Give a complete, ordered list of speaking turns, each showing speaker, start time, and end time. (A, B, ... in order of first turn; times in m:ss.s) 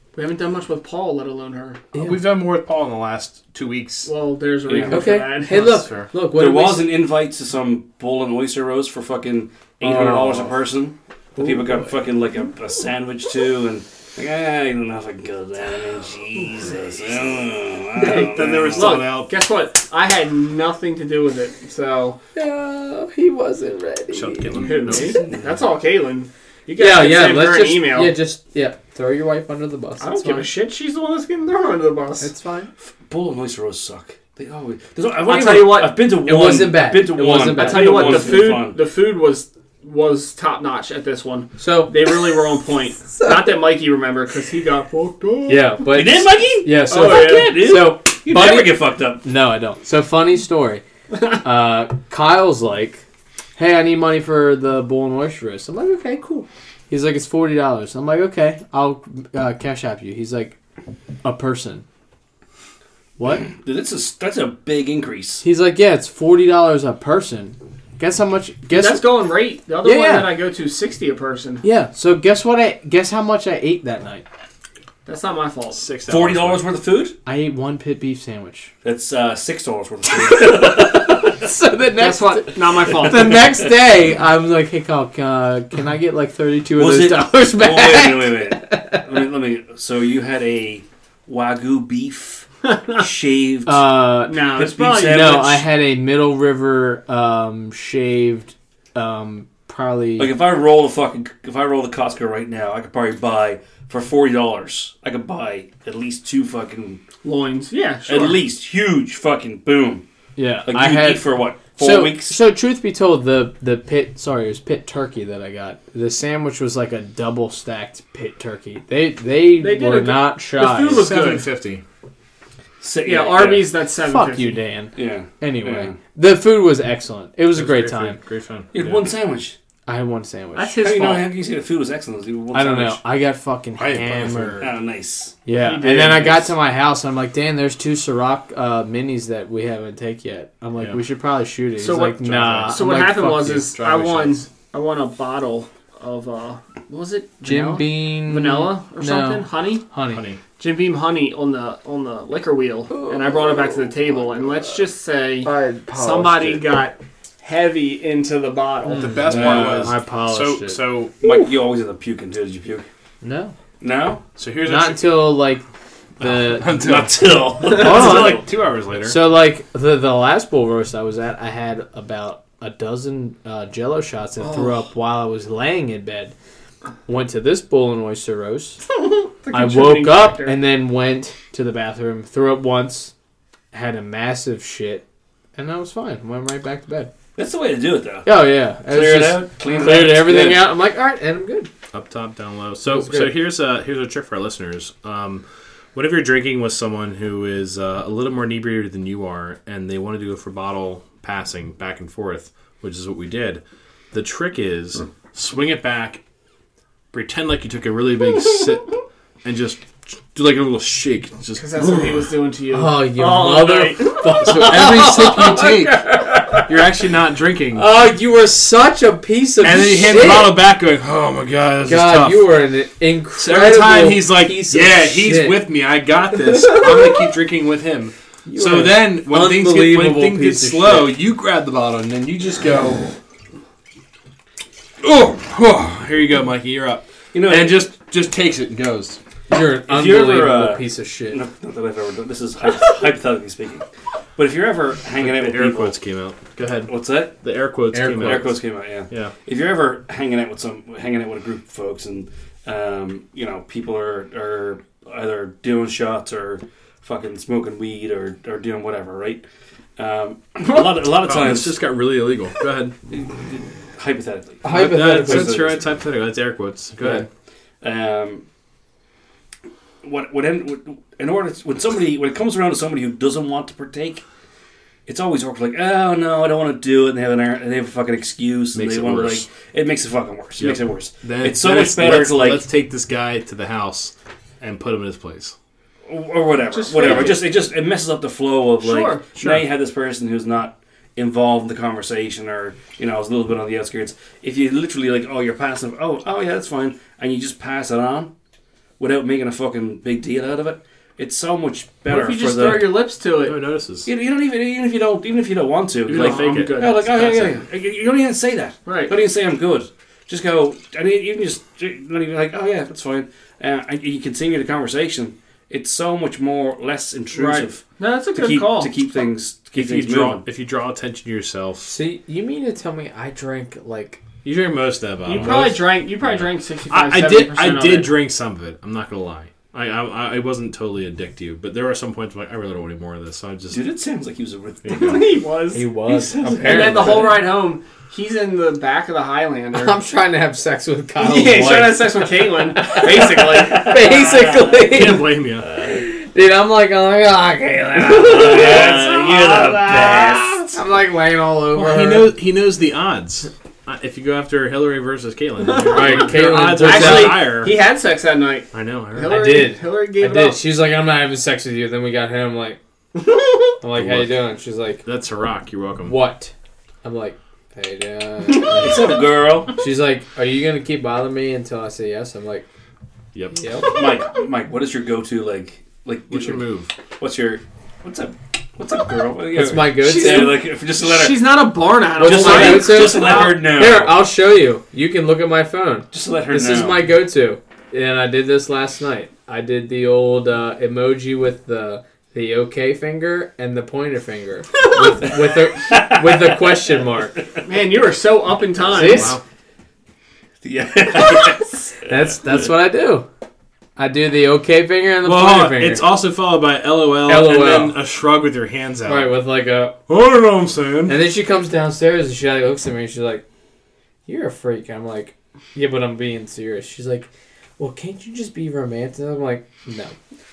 0:00.2-0:01.8 A
0:01.9-0:04.1 B
0:04.1-0:05.7 A
0:04.7-0:05.0 C
0:04.9-0:06.9 D
0:05.4-0:06.1 B
0:06.4-0:19.1 C
0:09.8-0:10.6 D
0:11.4-0:11.9 D
0:18.0-0:19.3 B
0:18.7-0:22.2 A
0:22.4-0:25.0 D
0:24.1-0:25.2 B
0:24.6-0:28.2 A
0:25.0-0:25.5 C
0:26.8-0:30.5 D
0:30.0-0:32.3 A
0:32.2-0:32.7 D
0:32.8-0:38.8 C
0:35.2-0:36.0 A
0:36.2-0:38.5 D
0:37.5-0:45.7 A
0:41.6-0:42.3 D
0:43.1-0:43.6 D
0:45.5-0:53.0 D
0:45.9-0:49.2 C
0:46.9-0:47.6 A
0:53.6-1:00.6 D
1:01.2-1:01.8 D
1:03.2-1:03.5 D
1:03.5-1:05.4 C
1:05.4-1:09.2 D
1:08.7-1:11.6 A
1:09.8-1:10.3 D
1:11.6-1:14.3 D
1:15.1-1:15.8 A
1:15.7-1:16.6 B
1:16.1-1:17.2 C
1:17.2-1:18.7 D
1:18.8-1:21.3 C
1:20.1-1:29.1 D
1:22.0-1:23.5 A
1:26.8-1:35.7 C
1:32.6-1:33.0 A
1:33.7-1:34.5 D
1:34.3-1:35.4 A
1:35.0-1:40.4 D
1:40.2-1:47.0 C
1:47.2-1:48.4 A
1:48.1-1:50.0 C
1:50.4-2:01.1 D
1:50.7-1:52.4 C
1:59.6-2:01.5 A
2:00.8-2:01.8 B
2:02.8-2:03.7 C
2:03.0-2:04.6 A
2:04.0-2:08.2 D
2:05.0-2:06.0 C
2:07.6-2:09.1 B
2:08.7-2:09.6 C
2:09.9-2:10.8 D
2:10.6-2:11.3 A
2:10.8-2:13.0 C
2:12.5-2:14.7 D
2:13.8-2:14.7 B
2:14.6-2:15.4 C
2:15.5-2:23.7 D
2:15.5-2:16.5 A
2:21.8-2:29.8 A
2:22.1-2:22.8 B
2:23.5-2:24.5 B
2:27.4-2:30.2 D
2:30.1-2:30.4 B
2:30.6-2:39.3 A
2:32.9-2:33.9 D
2:35.4-2:36.7 D
2:38.8-2:41.5 D
2:38.9-2:41.1 B
2:39.3-2:40.0 C
2:41.2-2:42.9 C
2:43.2-2:43.5 D
2:43.8-2:44.2 C
2:44.4-2:45.2 B
2:44.6-2:45.6 D
2:46.2-2:46.9 D
2:46.2-2:49.2 B
2:46.8-2:48.4 C
2:47.7-2:48.5 D
2:49.0-2:56.3 D
2:54.4-2:54.8 A
2:57.1-2:58.8 D
2:59.0-3:00.6 A
2:59.5-3:03.1 D
3:03.7-3:05.0 D
3:05.6-3:07.1 D
3:07.4-3:10.7 C
3:08.3-3:11.7 D
3:09.6-3:10.0 A
3:11.9-3:15.4 B
3:12.8-3:13.4 D
3:16.0-3:26.2 B
3:27.1-3:32.3 B
3:31.6-3:34.4 A
3:32.7-3:36.8 D
3:34.4-3:37.9 B
3:37.7-3:40.6 D
3:39.6-3:42.5 B
3:41.9-3:45.7 D
3:43.4-3:53.1 B
3:48.5-3:51.2 D
3:55.0-3:59.2 B
3:57.3-3:57.8 C
3:59.5-4:01.4 D
3:59.9-4:06.0 C
4:05.2-4:08.6 B
4:06.9-4:07.4 C
4:07.9-4:08.5 D
4:08.2-4:19.4 C
4:09.1-4:09.3 B
4:20.0-4:21.8 C
4:21.1-4:23.0 B
4:23.1-4:25.8 C
4:24.6-4:25.6 D
4:24.7-4:27.3 B
4:27.8-4:28.4 C
4:30.0-4:34.2 C
4:35.1-4:42.6 C
4:38.7-4:39.5 B
4:40.6-4:45.5 B
4:46.1-4:58.3 C
4:46.7-4:47.5 A
4:48.8-4:49.2 A
4:49.4-4:49.6 B
4:59.0-5:03.0 C
5:02.1-5:03.6 A
5:03.4-5:04.1 B
5:04.0-5:17.8 C
5:06.1-5:06.9 B
5:06.1-5:07.6 A
5:08.9-5:09.1 A
5:17.3-5:18.9 A
5:18.4-5:20.4 C
5:19.8-5:21.9 B
5:21.8-5:24.2 D
5:24.4-5:33.8 B
5:25.3-5:28.1 A
5:33.7-5:35.4 C
5:34.8-5:35.3 B
5:34.9-5:35.9 A
5:35.7-5:37.5 D
5:36.1-5:37.4 C
5:36.6-5:40.0 A
5:39.7-5:52.3 D
5:41.2-5:44.4 A
5:43.6-5:44.5 C
5:44.8-5:45.7 B
5:48.0-5:50.7 C
5:51.7-5:57.8 B
5:55.8-5:56.2 A
5:55.9-5:57.6 D
5:56.8-6:00.6 A
5:58.7-5:59.6 B
5:59.2-6:02.8 D
6:03.8-6:05.1 D
6:04.0-6:04.5 B
6:05.0-6:06.2 B
6:06.0-6:06.5 D
6:07.0-6:09.2 D
6:08.8-6:09.8 C
6:09.8-6:12.7 D
6:13.6-6:13.9 D
6:13.8-6:16.6 C
6:16.3-6:16.9 B
6:17.2-6:21.6 C
6:19.5-6:20.6 D
6:20.2-6:20.5 A
6:21.0-6:23.6 A
6:22.2-6:24.2 C
6:22.2-6:37.4 D
6:26.1-6:27.1 C
6:35.8-6:36.8 C
6:37.7-6:39.3 A
6:38.9-6:39.4 D
6:39.0-6:39.4 B
6:40.6-6:42.1 C
6:42.0-6:43.3 D
6:44.0-6:46.1 D
6:45.2-6:49.3 B
6:47.2-6:48.0 D
6:49.1-6:50.0 D
6:50.1-6:51.2 B
6:51.1-6:53.4 D
6:54.3-7:00.2 D